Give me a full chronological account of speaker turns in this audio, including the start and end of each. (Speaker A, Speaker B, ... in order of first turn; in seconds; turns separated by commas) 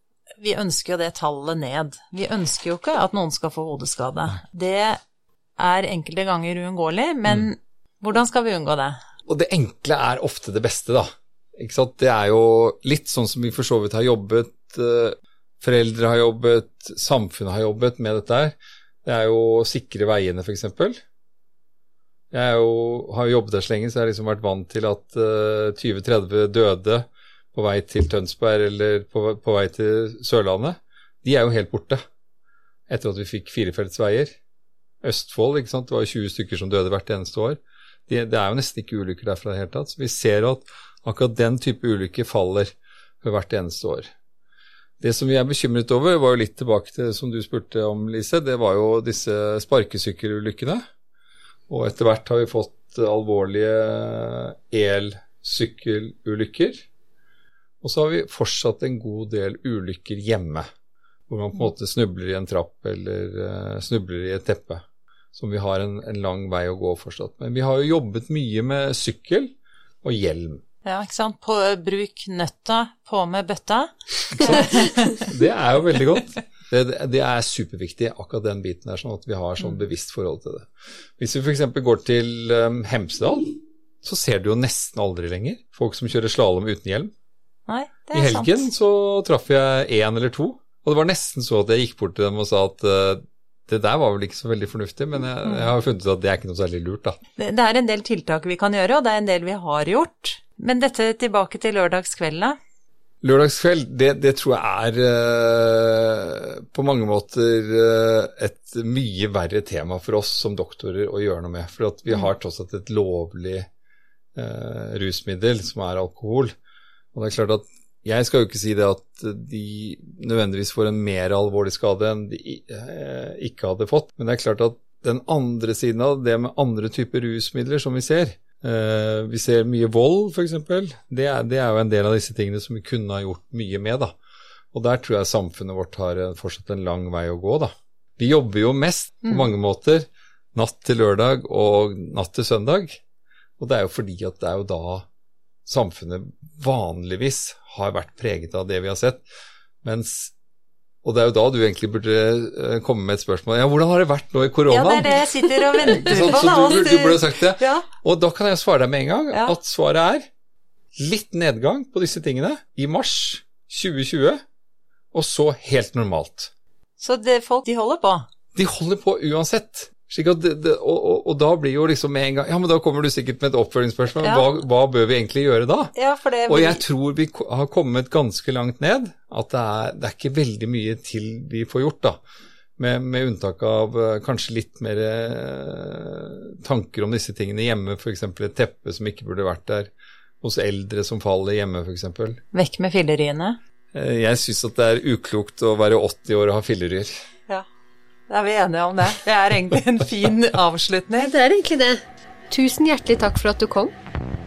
Speaker A: 0.4-5.0, Speaker A: 5.6-9.0, Speaker B: 9.3-21.0, Speaker B: 22.3-32.0, Speaker B: 32.9-34.3, Speaker B: 35.0-44.1, Speaker B: 45.0-50.8, Speaker B: 51.7-56.9, Speaker B: 57.8-60.6, Speaker B: 61.3-70.6, Speaker A: 70.8-75.2, Speaker B: 75.2-87.1, Speaker A: 87.7-88.7, Speaker B: 88.1-97.2, Speaker A: 95.5-95.7, Speaker A: 97.4-102.5, Speaker B: 103.2-113.7, Speaker B: 114.3-116.5, Speaker B: 117.1-134.1, Speaker B: 134.7-143.0, Speaker B: 143.6-145.1, Speaker B: 145.7-149.2, Speaker B: 149.8-150.3, Speaker B: 151.0-160.3, Speaker A: 154.7-157.8, Speaker B: 160.9-164.4, Speaker B: 165.1-166.5, Speaker A: 167.0-168.3, Speaker B: 168.5-175.9, Speaker A: 174.2-174.5, Speaker A: 175.9-176.8, Speaker B: 176.5-182.2, Speaker B: 182.8-192.4, Speaker A: 192.5-193.6, Speaker B: 193.9-197.1, Speaker A: 198.3-201.3, Speaker C: 201.2-203.9